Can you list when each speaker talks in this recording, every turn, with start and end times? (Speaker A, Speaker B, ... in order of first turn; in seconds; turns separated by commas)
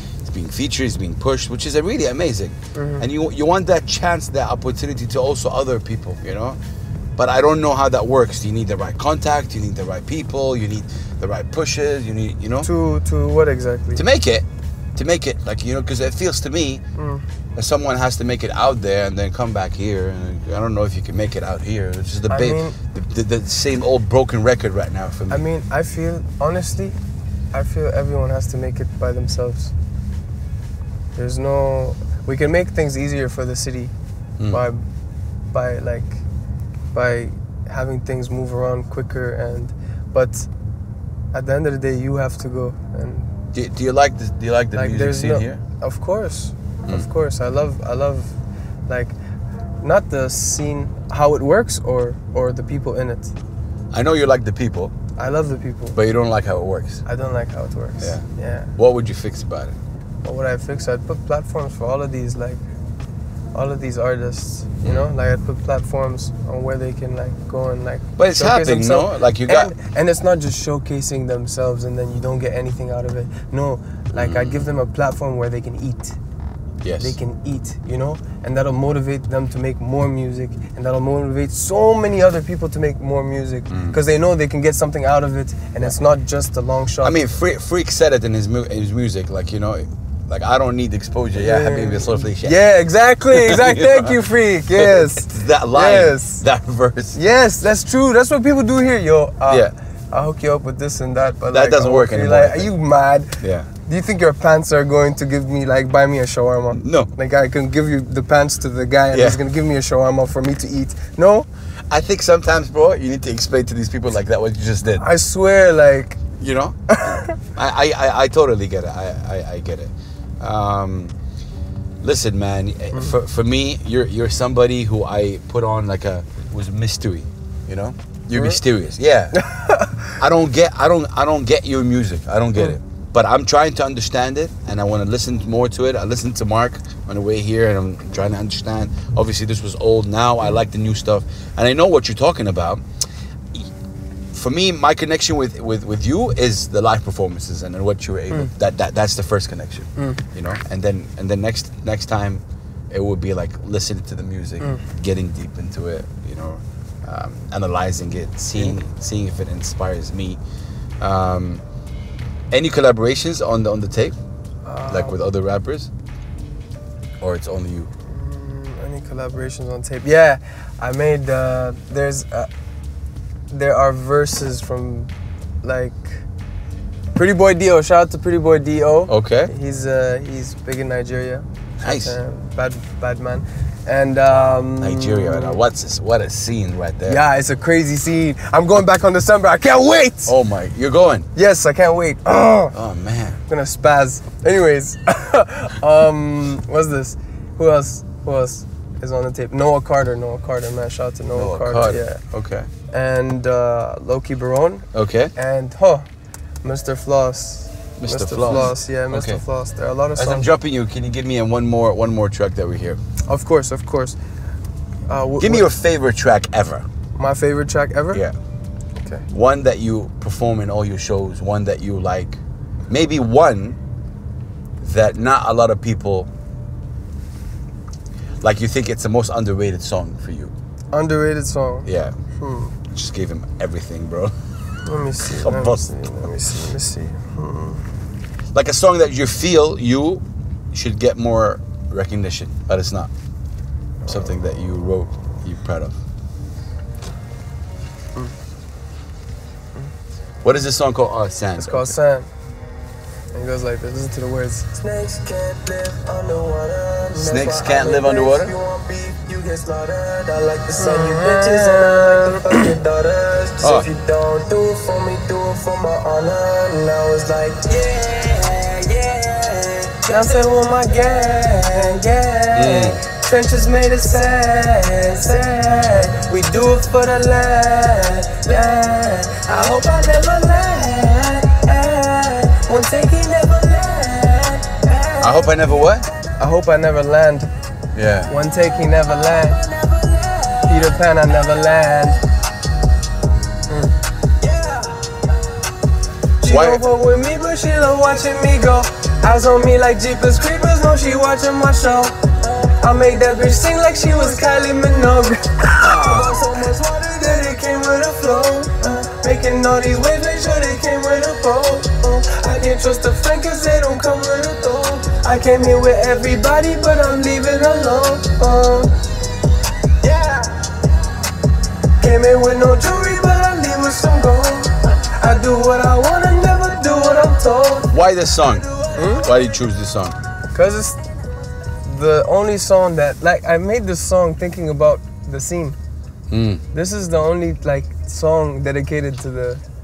Speaker A: 0.2-6.6, Speaker B: 2.7-3.0, Speaker A: 7.2-12.7, Speaker B: 12.6-14.0, Speaker A: 13.9-14.4, Speaker A: 14.9-16.8, Speaker B: 16.9-17.2, Speaker A: 17.6-25.4, Speaker B: 22.3-22.8, Speaker B: 25.3-27.0, Speaker B: 27.5-29.7, Speaker B: 31.1-33.9, Speaker A: 34.4-34.6, Speaker B: 34.5-34.9, Speaker B: 35.5-36.2, Speaker B: 36.9-40.5, Speaker B: 41.3-43.3, Speaker A: 43.5-45.6, Speaker B: 44.7-48.3, Speaker B: 48.9-49.1, Speaker B: 49.8-53.3, Speaker A: 53.9-54.9, Speaker B: 55.2-56.0, Speaker A: 56.0-57.0, Speaker B: 57.0-58.7, Speaker A: 58.0-58.2, Speaker A: 58.8-59.8, Speaker B: 60.2-62.6, Speaker B: 63.5-76.2, Speaker A: 64.8-65.1, Speaker A: 68.2-69.7, Speaker A: 74.2-74.7, Speaker A: 76.8-77.2, Speaker B: 77.0-87.2, Speaker A: 83.7-84.0, Speaker A: 87.0-92.6, Speaker B: 91.4-96.4, Speaker A: 93.3-94.2, Speaker A: 94.7-97.2, Speaker B: 97.1-111.5, Speaker A: 99.5-99.7, Speaker A: 101.5-102.7, Speaker A: 103.4-103.7, Speaker A: 106.7-107.1, Speaker A: 109.1-109.4, Speaker A: 111.9-115.1, Speaker B: 115.0-116.2, Speaker A: 116.3-121.1, Speaker B: 116.9-117.3, Speaker A: 122.0-129.5, Speaker B: 122.9-123.2, Speaker B: 128.3-128.6, Speaker B: 129.3-130.2, Speaker A: 130.2-142.8, Speaker A: 144.3-160.4, Speaker A: 161.0-161.6, Speaker A: 162.5-164.2, Speaker B: 164.6-165.2, Speaker A: 164.9-165.9, Speaker A: 167.2-167.9, Speaker B: 168.1-172.5, Speaker B: 173.5-175.1, Speaker B: 175.6-176.2, Speaker B: 177.1-185.6, Speaker A: 179.1-179.5, Speaker A: 181.8-182.2, Speaker A: 184.8-187.2, Speaker B: 187.1-190.3, Speaker A: 190.3-191.3, Speaker B: 191.3-192.7, Speaker A: 192.7-193.4, Speaker B: 193.5-202.2, Speaker A: 201.3-202.7, Speaker B: 202.9-206.1, Speaker A: 204.9-205.3, Speaker B: 206.6-210.5, Speaker A: 208.0-209.4, Speaker A: 210.1-213.0, Speaker B: 213.3-214.2, Speaker B: 215.1-215.7, Speaker A: 215.4-216.9, Speaker B: 217.2-218.2, Speaker A: 219.3-222.4, Speaker A: 222.9-223.8, Speaker A: 224.8-226.3, Speaker A: 228.4-230.5, Speaker B: 230.9-232.7, Speaker A: 231.9-232.1, Speaker A: 232.9-234.3, Speaker B: 234.8-237.8, Speaker A: 235.2-235.9, Speaker A: 238.5-243.1, Speaker A: 244.1-246.0, Speaker A: 250.4-251.9, Speaker B: 251.6-252.3, Speaker B: 253.3-254.7, Speaker C: 254.7-270.5, Speaker A: 257.1-258.5, Speaker B: 260.7-262.4, Speaker A: 263.6-263.9, Speaker B: 270.1-277.4, Speaker A: 272.5-273.0, Speaker C: 277.3-285.7, Speaker B: 278.5-278.9, Speaker A: 285.2-286.1, Speaker B: 286.4-287.5, Speaker A: 287.9-288.3, Speaker B: 288.3-289.6, Speaker C: 289.0-291.7, Speaker B: 290.7-292.2, Speaker C: 294.4-295.2, Speaker B: 296.4-302.2, Speaker A: 296.4-296.8, Speaker C: 302.5-302.7, Speaker B: 302.8-306.0, Speaker A: 305.8-306.3, Speaker C: 305.8-307.6, Speaker B: 307.2-318.9, Speaker C: 320.0-320.6, Speaker B: 322.0-327.9, Speaker C: 327.6-327.9, Speaker A: 327.9-330.2, Speaker C: 328.6-329.2, Speaker B: 328.9-329.3, Speaker B: 330.5-331.0, Speaker B: 331.8-335.8, Speaker A: 336.3-336.6, Speaker B: 336.7-339.6